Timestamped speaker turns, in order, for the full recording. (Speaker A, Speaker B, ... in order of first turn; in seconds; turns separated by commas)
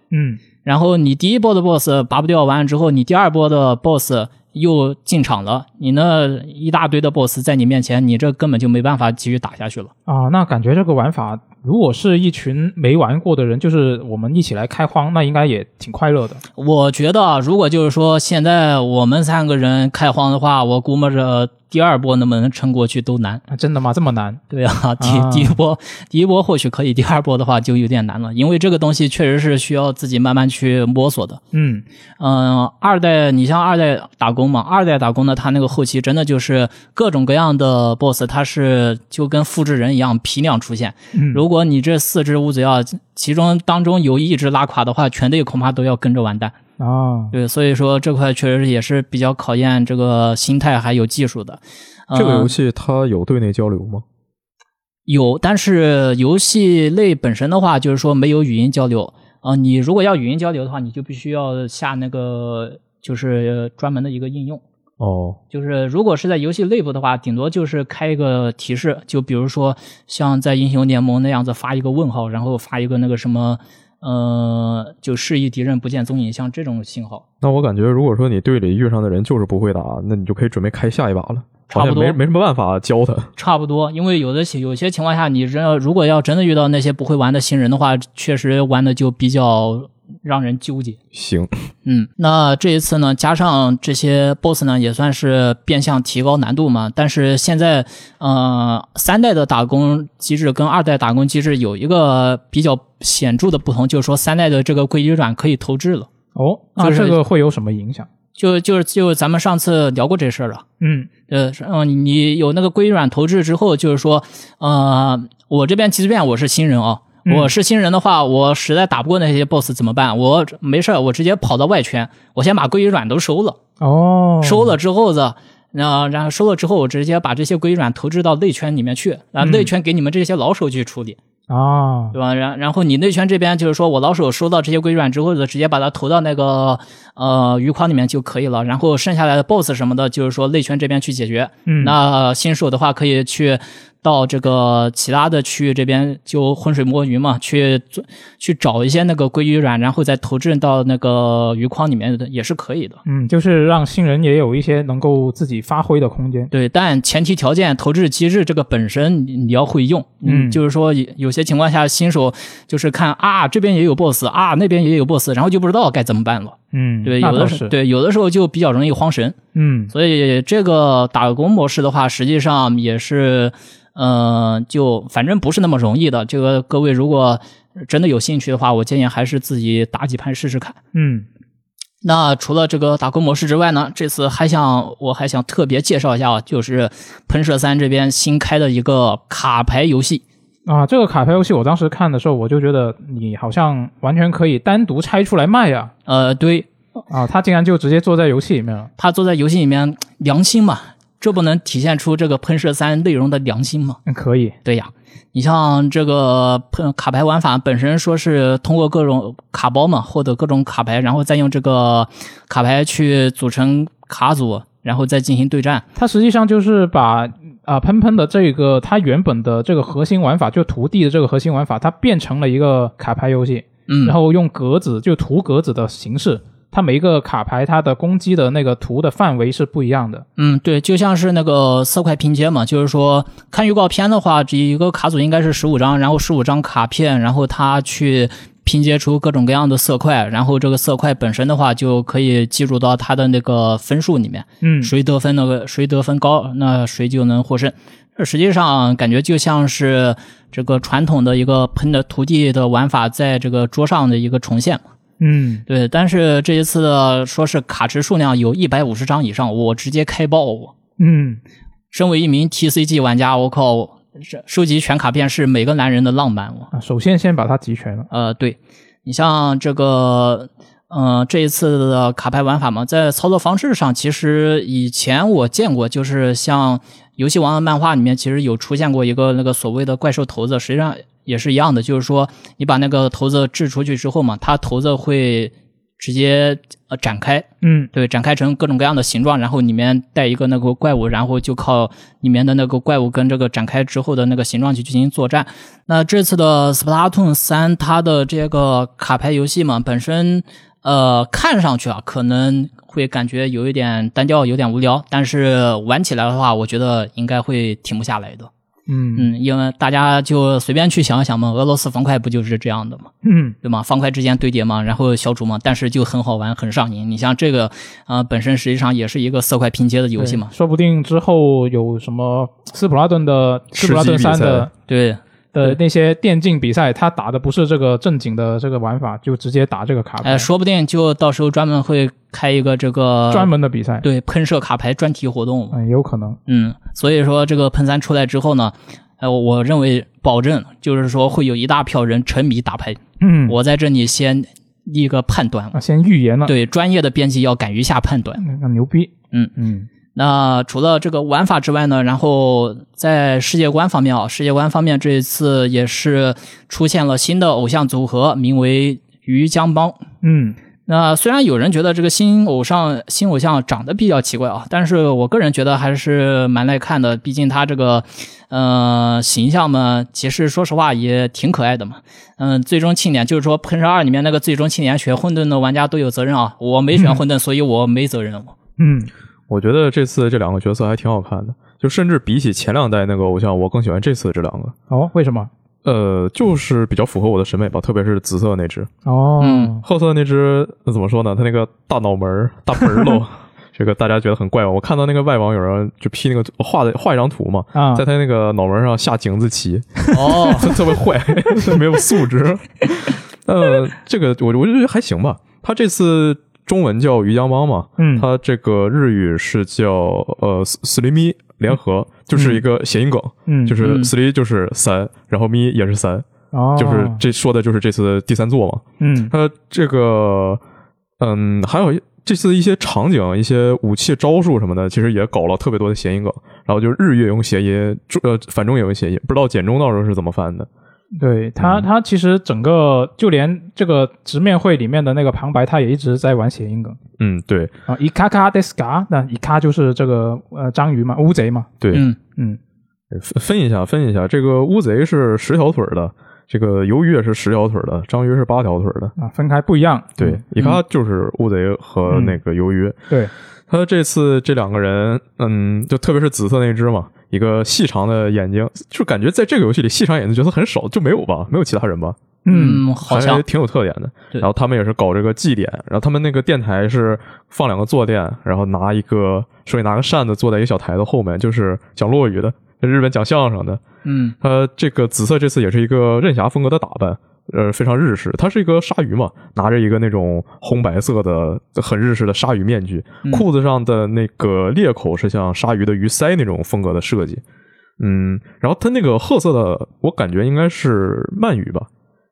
Speaker A: 0.1-0.4, Speaker B: 0.6-9.9, Speaker A: 10.1-16.4, Speaker B: 16.6-23.4, Speaker A: 23.5-24.4, Speaker B: 24.5-31.4, Speaker A: 25.0-25.6, Speaker A: 31.5-31.8, Speaker B: 32.2-46.6, Speaker A: 41.1-41.4, Speaker A: 46.8-47.3, Speaker B: 47.3-52.5, Speaker C: 52.1-54.0, Speaker B: 55.1-64.6, Speaker C: 65.0-65.4, Speaker B: 65.5-77.2, Speaker C: 77.4-83.3, Speaker B: 81.7-82.2, Speaker B: 83.4-91.0, Speaker C: 91.1-91.5, Speaker B: 91.8-106.1, Speaker A: 106.3-108.1, Speaker B: 106.8-107.2, Speaker B: 108.4-110.7, Speaker A: 110.8-111.1, Speaker B: 111.3-123.6, Speaker A: 117.3-117.5, Speaker A: 123.8-124.8, Speaker B: 124.4-131.2, Speaker A: 129.4-129.7, Speaker A: 131.5-132.2, Speaker B: 132.1-153.0, Speaker A: 141.7-142.0, Speaker A: 153.1-156.5, Speaker B: 156.5-169.4, Speaker A: 160.2-160.6, Speaker A: 166.7-167.7, Speaker A: 169.6-169.9, Speaker B: 169.9-180.8, Speaker A: 180.9-181.3, Speaker B: 182.0-190.2, Speaker A: 190.7-195.9, Speaker B: 196.1-196.7, Speaker A: 197.1-198.9, Speaker B: 199.0-204.0, Speaker A: 204.1-204.6, Speaker B: 204.7-215.8, Speaker A: 216.0-230.3, Speaker B: 223.9-224.2, Speaker B: 230.4-254.8, Speaker A: 244.6-244.9, Speaker A: 255.2-255.6, Speaker B: 255.7-260.7, Speaker A: 261.0-261.4, Speaker B: 261.9-266.7, Speaker A: 266.7-268.1, Speaker B: 268.1-308.5, Speaker A: 287.6-287.9, Speaker A: 308.9-309.3, Speaker B: 309.1-313.1, Speaker A: 313.2-313.6, Speaker B: 313.6-320.5, Speaker A: 320.2-324.7, Speaker C: 323.7-324.7, Speaker B: 324.9-325.8, Speaker A: 325.6-330.5, Speaker B: 330.2-333.5, Speaker A: 333.3-334.1, Speaker B: 334.0-335.8, Speaker A: 335.7-336.4, Speaker B: 336.5-345.8, Speaker A: 343.2-343.6, Speaker A: 345.7-346.5, Speaker B: 346.5-348.4, Speaker A: 348.4-349.9, Speaker B: 350.1-360.1, Speaker A: 360.2-360.6, Speaker B: 360.9-378.5, Speaker A: 376.9-377.2, Speaker A: 378.8-379.1, Speaker C: 379.5-384.8, Speaker A: 384.9-385.5, Speaker C: 385.8-388.9, Speaker A: 389.1-389.8, Speaker B: 389.4-389.7, Speaker C: 389.8-420.6, Speaker A: 397.7-398.1, Speaker A: 400.1-400.8, Speaker B: 400.1-400.7, Speaker A: 408.0-408.3, Speaker A: 412.3-412.6, Speaker A: 413.5-413.8, Speaker B: 413.8-414.1, Speaker A: 416.5-417.2, Speaker A: 419.0-419.3, Speaker C: 421.2-430.7, Speaker A: 431.2-437.0, Speaker C: 431.6-431.9, Speaker C: 437.2-437.7, Speaker A: 437.9-442.6, Speaker B: 441.9-442.2, Speaker C: 443.1-449.1, Speaker A: 449.2-450.4, Speaker C: 450.2-453.0, Speaker A: 452.1-452.4, Speaker C: 453.7-462.2, Speaker A: 462.5-462.8, Speaker B: 462.5-463.4, Speaker C: 463.0-473.8, Speaker B: 474.1-474.4, Speaker C: 474.4-487.4, Speaker C: 488.0-491.9